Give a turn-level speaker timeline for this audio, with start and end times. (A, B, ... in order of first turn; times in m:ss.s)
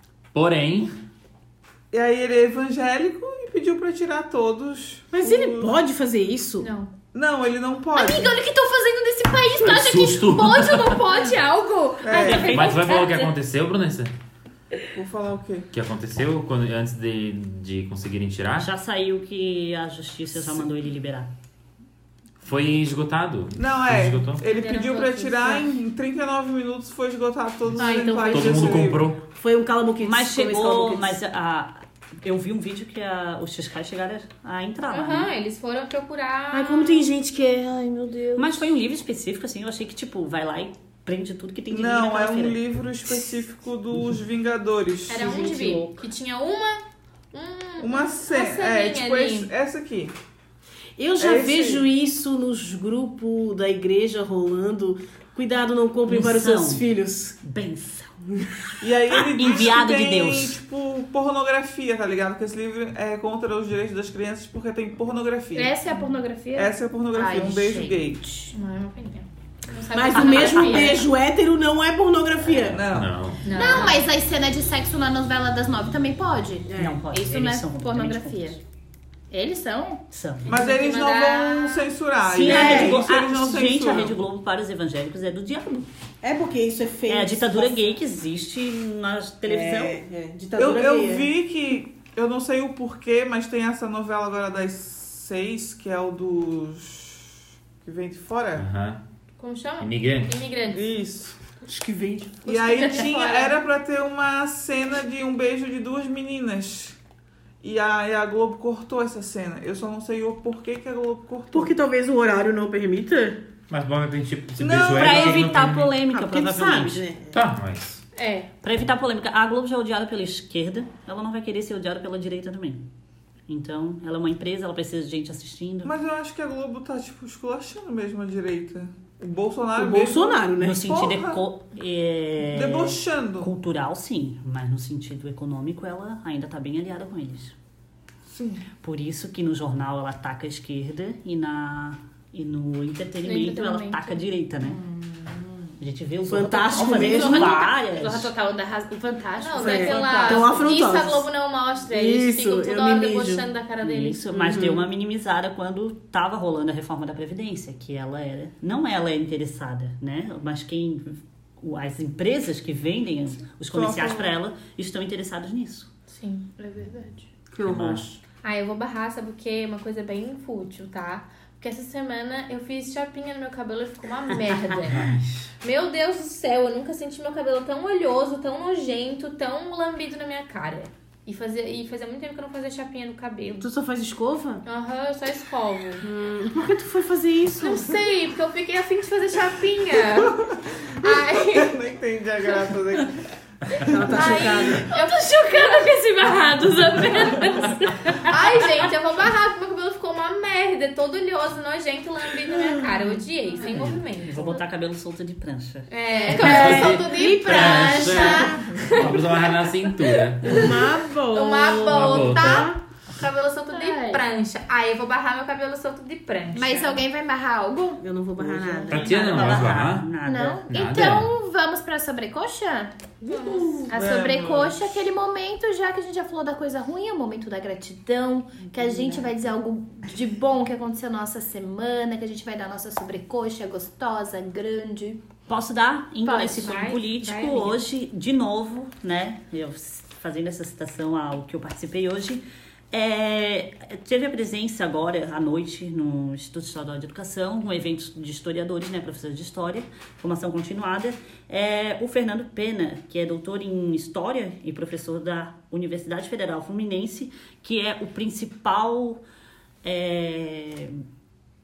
0:00.3-0:00.9 A
0:01.9-0:05.7 B
0:05.1-0:06.7 C
0:06.6-0:06.9 D
0:07.1-0:08.4 B
0:08.0-0:12.9 E
0:09.5-0:11.0 A
0:12.0-0:12.7 B
0:12.0-0:13.1 D
0:12.1-0:12.8 F
0:12.4-0:14.1 A
0:14.9-0:15.7 B
0:15.7-0:18.7 A
0:18.6-0:21.3 F
0:22.4-0:24.4 A
0:23.6-0:29.1 B
0:24.4-0:25.6 D
0:27.8-0:28.7 D
0:28.3-0:29.2 A
0:29.3-0:31.2 C
0:30.0-0:35.3 F
0:34.9-0:37.1 D
0:36.5-0:38.7 C
0:38.4-0:42.6 F
0:41.7-0:45.3 B
0:45.1-0:49.5 D
0:45.2-0:45.8 E
0:45.2-0:45.9 C
0:47.8-0:50.1 B
0:51.0-0:57.4 C
0:51.2-0:51.8 B
0:56.0-0:56.9 F
0:57.4-0:58.2 F
0:58.8-1:05.8 B
0:59.2-1:00.6 F
1:05.6-1:08.5 E
1:06.5-1:08.2 B
1:08.5-1:11.0 D
1:09.9-1:12.8 C
1:12.7-1:13.2 B
1:12.7-1:13.8 A
1:13.4-1:14.0 D
1:13.5-1:18.6 E
1:16.7-1:17.0 C
1:16.7-1:18.6 F
1:19.3-1:20.0 E
1:20.1-1:20.6 F
1:20.5-1:24.2 B
1:20.5-1:21.8 D
1:22.2-1:25.9 F
1:22.4-1:23.0 C
1:26.2-1:28.0 C
1:27.1-1:30.0 F
1:29.5-1:31.3 C
1:30.6-1:38.7 B
1:38.6-1:39.0 A
1:39.4-1:40.8 D
1:39.8-1:40.4 A
1:40.7-1:41.4 B
1:41.7-1:43.0 C
1:42.4-1:47.0 B
1:42.8-1:43.4 D
1:47.6-1:51.7 B
1:51.5-1:53.4 C
1:53.7-1:56.0 A
1:54.6-1:55.6 B
1:54.8-1:57.1 F
1:56.1-1:57.4 C
1:57.3-1:58.0 A
1:58.2-1:58.5 D
1:58.6-2:02.8 F
2:03.5-2:06.0 F
2:05.8-2:11.4 B
2:09.8-2:11.0 C
2:10.6-2:17.5 F
2:12.5-2:13.5 B
2:18.3-2:18.6 B
2:18.8-2:24.8 F
2:23.2-2:24.2 D
2:24.6-2:25.7 E
2:25.8-2:28.3 F
2:26.3-2:27.6 C
2:26.7-2:30.6 E
2:29.4-2:34.2 D
2:29.6-2:31.3 C
2:31.8-2:33.5 C
2:33.8-2:45.9 F
2:34.3-2:34.9 C
2:43.7-2:44.3 B
2:46.1-2:47.1 D
2:47.5-2:48.0 C
2:47.6-2:48.2 A
2:48.4-2:55.1 D
2:54.9-2:55.2 A
2:55.6-3:03.7 D
3:03.6-3:04.6 C
3:04.7-3:06.1 D
3:06.0-3:08.0 C
3:07.6-3:11.7 D
3:10.2-3:13.2 B
3:13.8-3:14.9 C
3:14.1-3:24.6 D
3:14.2-3:15.9 E
3:17.0-3:18.2 E
3:23.7-3:25.9 F
3:25.9-3:37.0 D
3:26.1-3:28.6 E
3:26.3-3:30.7 A
3:26.3-3:28.6 C
3:30.4-3:32.8 C
3:31.8-3:32.7 A
3:33.7-3:34.2 E
3:36.5-3:39.6 E
3:38.0-3:39.4 C
3:38.9-3:40.1 A
3:38.9-3:40.6 F
3:40.2-3:43.0 E
3:40.7-3:41.3 A
3:43.2-3:43.9 C
3:43.3-3:43.9 D
3:43.9-3:55.2 E
3:43.9-3:45.0 B
3:48.8-3:49.2 C
3:55.5-4:19.2 F
3:56.3-3:56.8 E
3:56.3-3:57.8 D
4:19.8-4:21.0 F